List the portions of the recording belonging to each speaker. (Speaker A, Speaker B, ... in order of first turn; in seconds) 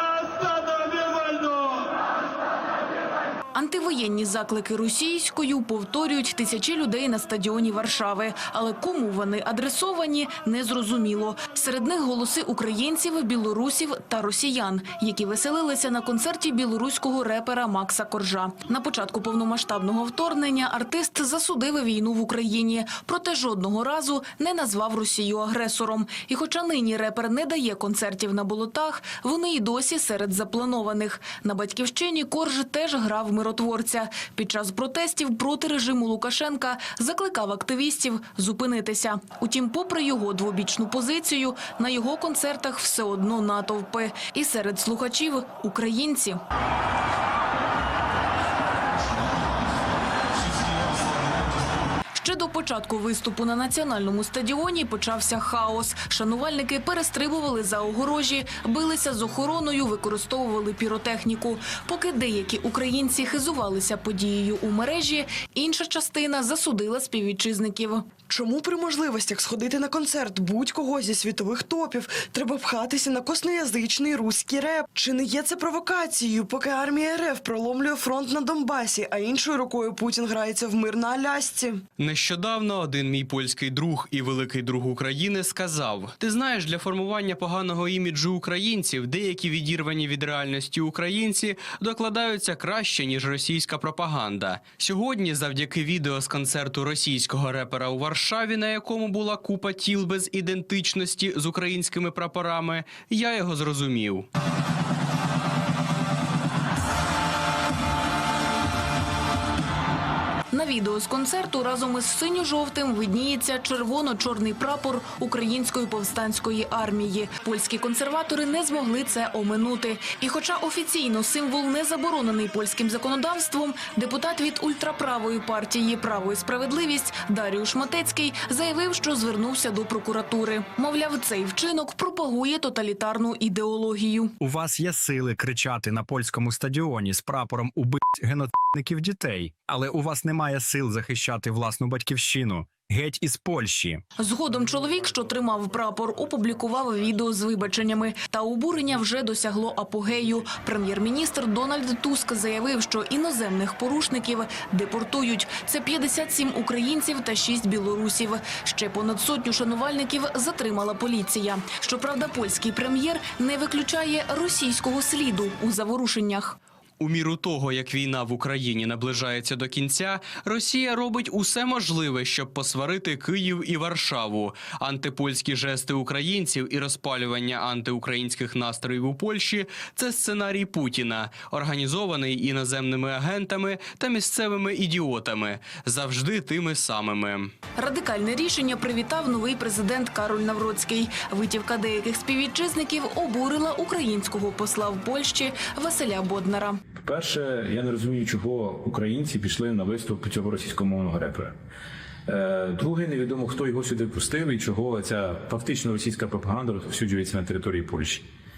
Speaker A: 3.5-46.4, 52.1-68.1, 110.5-134.3, 144.2-166.6, 187.8-196.8
Speaker B: 68.3-81.8
Speaker C: 82.0-104.2, 167.0-187.5
Speaker D: 134.4-144.0
Speaker E: 197.0-201.5, 202.3-208.2